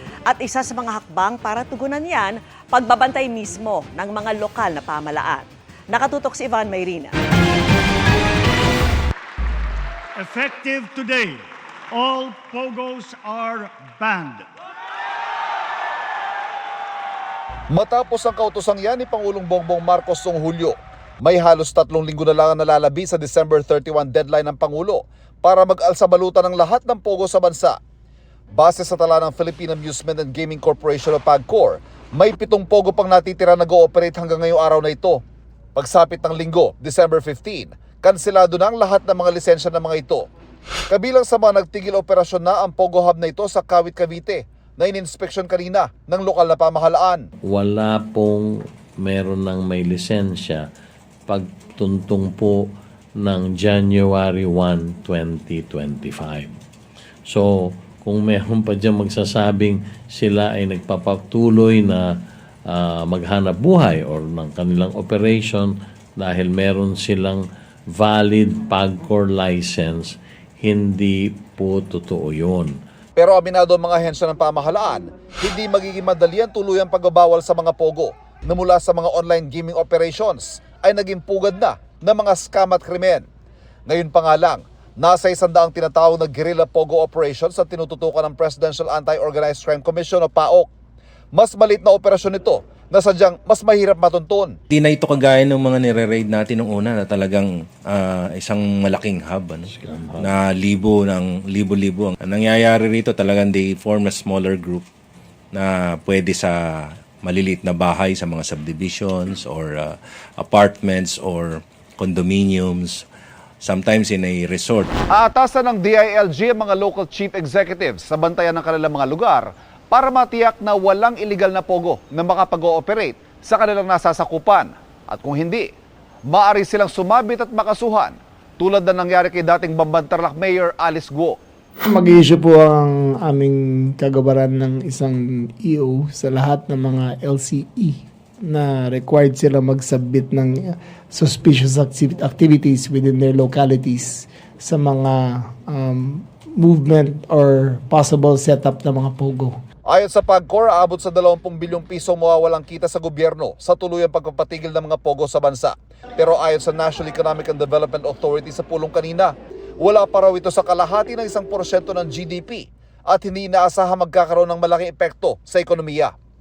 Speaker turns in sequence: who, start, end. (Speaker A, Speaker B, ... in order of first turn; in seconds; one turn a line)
Speaker A: 0.3-7.1
Speaker B: 10.2-11.4
Speaker B: 11.9-14.5
Speaker C: 17.7-27.8
Speaker C: 28.6-35.2
Speaker C: 35.8-40.3
Speaker C: 40.9-47.2
Speaker D: 47.5-48.5
Speaker D: 49.0-50.6
Speaker D: 51.3-52.6
Speaker D: 53.2-56.6
Speaker D: 57.3-62.1
Speaker D: 62.7-72.7
Speaker C: 73.2-83.2
Speaker C: 83.9-90.7
Speaker C: 91.3-94.6
Speaker E: 94.7-104.8
Speaker E: 105.5-106.5
Speaker E: 107.2-113.0
Speaker E: 113.6-114.9
Speaker C: 115.1-125.7
Speaker C: 126.3-131.4
Speaker F: 131.9-149.5
Speaker C: 149.9-166.1